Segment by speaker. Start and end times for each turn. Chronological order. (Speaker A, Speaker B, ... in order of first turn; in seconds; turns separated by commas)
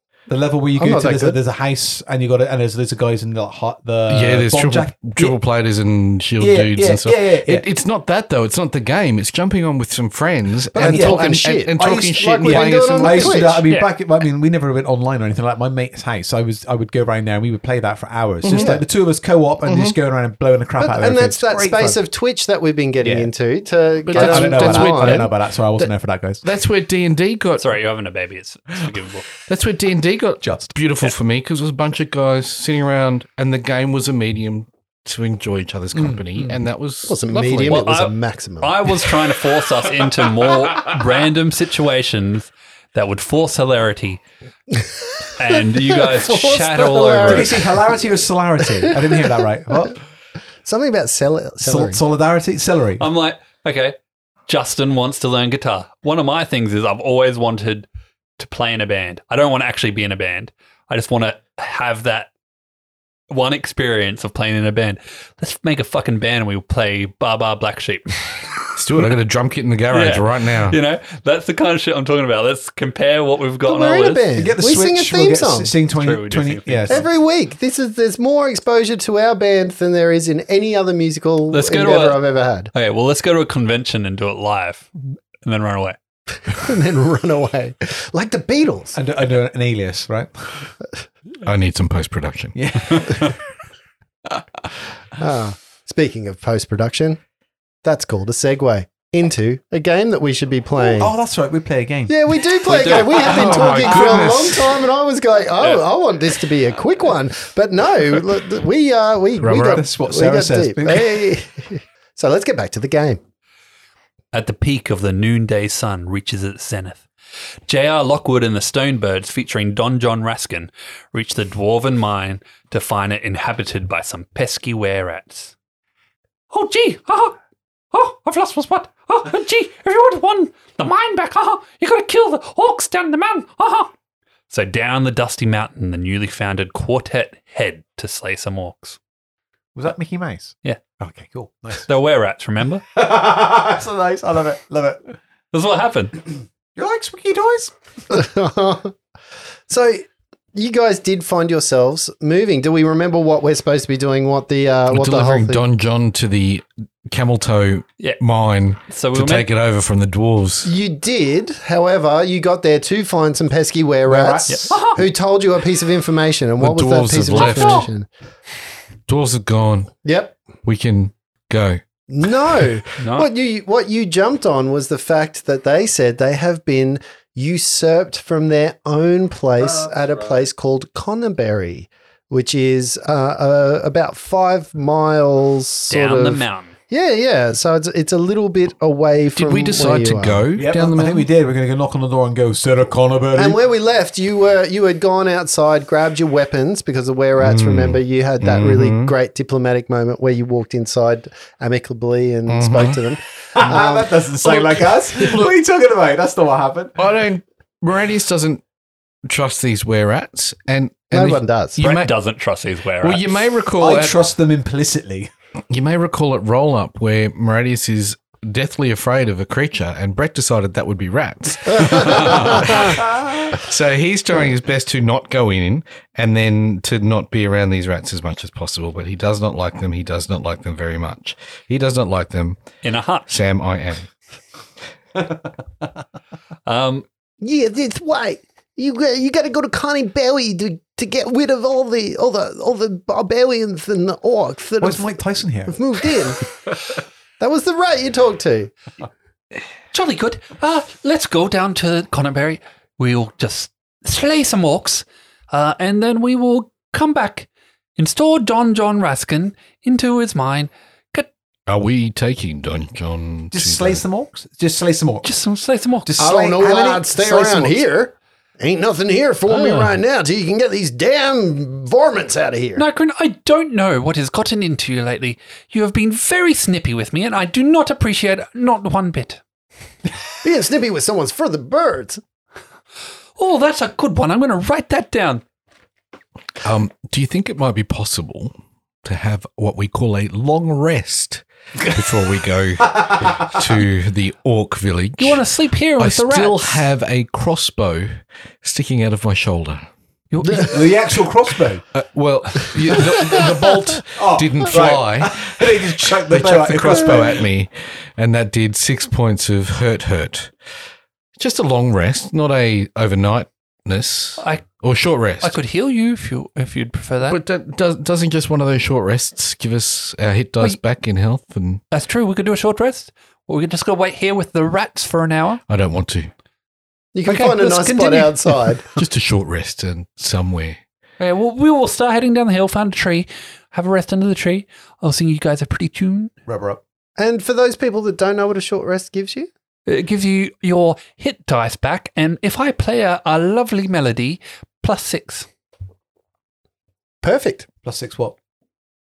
Speaker A: 0.3-5.4, Speaker B: 0.8-1.4, Speaker C: 4.1-13.5, Speaker A: 6.4-7.6, Speaker A: 10.7-22.0, Speaker B: 10.7-13.6, Speaker C: 18.4-18.8, Speaker B: 18.6-18.8, Speaker C: 19.6-19.9, Speaker B: 20.8-25.3, Speaker A: 23.0-23.3, Speaker C: 24.0-25.9, Speaker A: 24.1-26.4, Speaker C: 26.4-27.7, Speaker D: 27.6-29.2, Speaker C: 29.5-37.8, Speaker A: 30.4-30.7, Speaker A: 35.9-36.6, Speaker B: 37.1-39.0, Speaker D: 37.7-44.2, Speaker B: 44.8-48.1, Speaker D: 45.4-47.6, Speaker A: 47.2-50.0, Speaker B: 48.7-49.2, Speaker B: 50.6-52.0, Speaker A: 51.6-53.0, Speaker D: 53.0-54.0, Speaker D: 54.5-57.9, Speaker D: 58.4-62.3, Speaker D: 63.3-68.5, Speaker C: 68.7-70.8, Speaker D: 69.9-74.2, Speaker B: 73.6-75.7, Speaker A: 74.3-77.1, Speaker D: 75.9-77.0, Speaker B: 76.9-82.7, Speaker D: 81.5-82.2, Speaker D: 82.7-84.9, Speaker D: 85.4-86.0, Speaker B: 86.5-89.0, Speaker A: 88.9-90.7, Speaker C: 91.4-92.5, Speaker A: 92.5-93.3, Speaker B: 95.2-97.2, Speaker B: 97.8-101.1, Speaker A: 100.8-102.1, Speaker B: 102.1-113.2, Speaker D: 102.7-103.9, Speaker A: 102.7-104.2, Speaker C: 103.2-104.7, Speaker C: 109.4-109.8, Speaker A: 109.6-111.3, Speaker D: 114.3-117.0, Speaker D: 117.7-125.5, Speaker D: 126.5-127.3, Speaker D: 127.9-133.9, Speaker D: 134.5-139.0, Speaker A: 139.7-141.9, Speaker D: 141.8-142.8, Speaker A: 142.9-145.2, Speaker D: 145.5-146.2, Speaker A: 146.8-147.7, Speaker B: 148.1-148.9, Speaker B: 149.7-155.6, Speaker C: 154.9-160.7, Speaker D: 158.9-159.5, Speaker B: 160.6-168.1, Speaker A: 164.1-164.8, Speaker D: 164.5-165.0, Speaker C: 166.6-167.9, Speaker D: 167.5-167.8, Speaker C: 169.1-169.9, Speaker B: 170.0-170.3, Speaker C: 170.6-171.8, Speaker B: 172.1-190.4, Speaker D: 173.0-173.3, Speaker A: 179.7-180.3, Speaker D: 185.9-186.7, Speaker C: 189.3-191.3, Speaker A: 190.5-193.6, Speaker B: 193.3-204.9, Speaker C: 197.4-199.1, Speaker C: 202.5-203.0, Speaker A: 203.5-207.0, Speaker C: 207.0-208.6, Speaker C: 209.3-212.1, Speaker B: 211.1-211.8, Speaker D: 211.8-213.4, Speaker C: 213.0-214.2, Speaker A: 213.8-215.3, Speaker C: 215.7-232.6, Speaker B: 221.9-222.5, Speaker D: 232.8-233.3, Speaker C: 233.3-234.1, Speaker D: 236.7-237.1, Speaker B: 237.4-245.1, Speaker A: 244.8-245.7, Speaker B: 245.7-246.5, Speaker B: 247.4-248.7, Speaker D: 249.9-261.3, Speaker C: 261.7-264.0, Speaker A: 263.5-265.3, Speaker D: 265.2-266.1, Speaker A: 266.0-267.8, Speaker B: 266.2-272.8, Speaker D: 269.5-269.9, Speaker D: 272.8-279.4, Speaker B: 280.4-282.2, Speaker D: 283.4-285.4, Speaker C: 286.6-295.4, Speaker D: 295.2-296.9, Speaker C: 296.0-299.9, Speaker D: 300.3-300.8, Speaker A: 300.6-301.8, Speaker C: 301.9-310.5, Speaker A: 304.1-307.5, Speaker C: 311.4-315.5, Speaker D: 314.4-314.6, Speaker D: 315.4-317.4, Speaker C: 317.2-321.8, Speaker D: 321.9-325.6, Speaker C: 325.7-326.3, Speaker B: 327.1-328.8, Speaker D: 327.2-328.8, Speaker C: 328.9-330.8, Speaker D: 331.2-336.3, Speaker A: 336.4-336.8, Speaker B: 337.2-339.5, Speaker D: 339.9-345.5, Speaker B: 347.2-347.6, Speaker A: 347.8-348.4